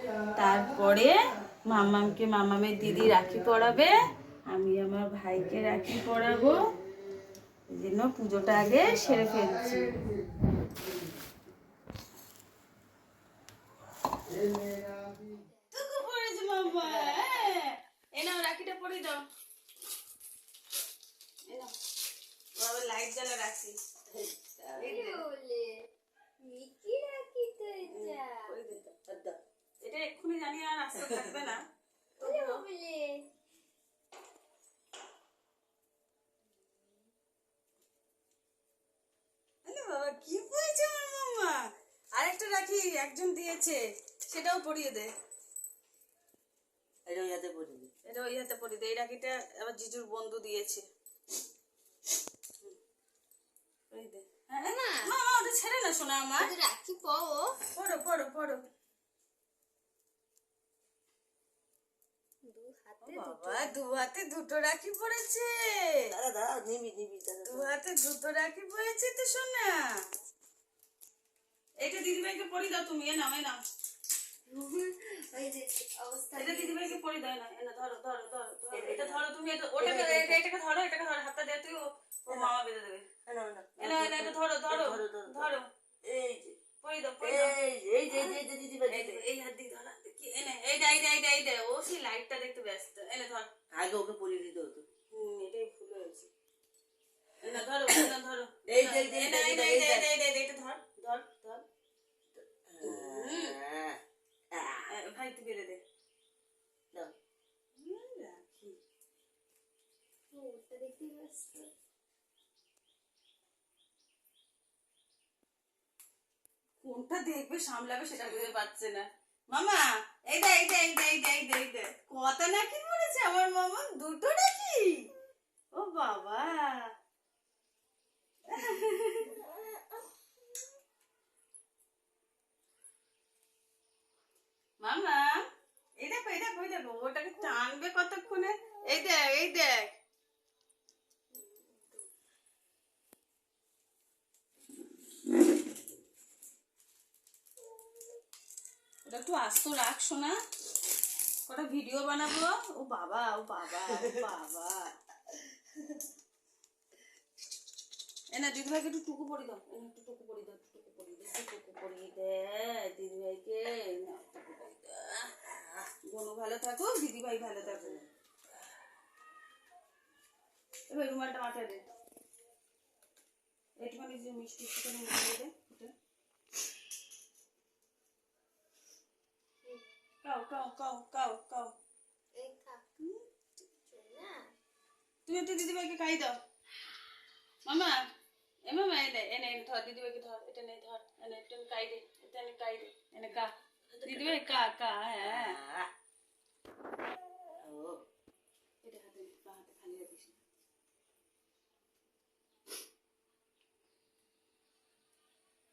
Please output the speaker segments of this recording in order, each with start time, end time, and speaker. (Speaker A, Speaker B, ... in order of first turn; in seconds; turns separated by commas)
Speaker A: 0.3-3.9, Speaker A: 4.5-6.6, Speaker A: 7.7-10.0, Speaker A: 15.7-19.2, Speaker A: 21.5-21.7, Speaker A: 22.6-23.8, Speaker B: 24.1-25.2, Speaker C: 24.7-25.8, Speaker A: 24.8-25.2, Speaker C: 26.4-28.5, Speaker A: 27.9-28.9, Speaker B: 29.0-29.4, Speaker A: 29.8-31.6, Speaker B: 31.0-31.3, Speaker A: 32.2-32.6, Speaker C: 32.2-33.2, Speaker A: 39.6-45.1, Speaker B: 47.0-47.9, Speaker A: 48.0-50.9, Speaker A: 53.9-56.5, Speaker C: 54.6-55.1, Speaker C: 56.4-57.6, Speaker A: 57.7-58.6, Speaker C: 62.5-63.7, Speaker A: 63.0-66.1, Speaker B: 66.1-67.8, Speaker A: 67.5-70.0, Speaker A: 71.8-73.6, Speaker C: 74.5-77.0, Speaker A: 76.3-83.1, Speaker B: 78.7-79.2, Speaker B: 79.8-80.4, Speaker B: 82.3-82.6, Speaker B: 83.3-86.6, Speaker A: 83.8-85.7, Speaker A: 86.8-93.5, Speaker B: 87.2-89.2, Speaker B: 93.7-94.9, Speaker A: 95.1-96.3, Speaker A: 97.4-101.6, Speaker B: 98.7-100.1, Speaker B: 102.4-104.0, Speaker A: 102.8-103.6, Speaker B: 104.5-104.9, Speaker A: 104.9-105.8, Speaker A: 107.8-108.8, Speaker C: 110.3-111.7, Speaker A: 116.8-125.1, Speaker A: 125.7-126.9, Speaker A: 128.5-129.4, Speaker A: 134.8-135.4, Speaker A: 136.0-139.9, Speaker A: 149.1-150.4, Speaker A: 151.5-154.9, Speaker A: 158.3-165.3, Speaker B: 165.5-165.9, Speaker A: 166.1-168.0, Speaker B: 167.6-168.1, Speaker A: 170.9-171.8, Speaker A: 173.8-175.9, Speaker A: 180.2-181.7, Speaker C: 182.4-183.1, Speaker C: 183.6-184.5, Speaker A: 185.2-186.3, Speaker A: 187.7-188.0, Speaker A: 188.7-195.6, Speaker B: 193.9-194.4, Speaker B: 195.2-195.9, Speaker B: 197.6-198.0, Speaker A: 198.8-200.4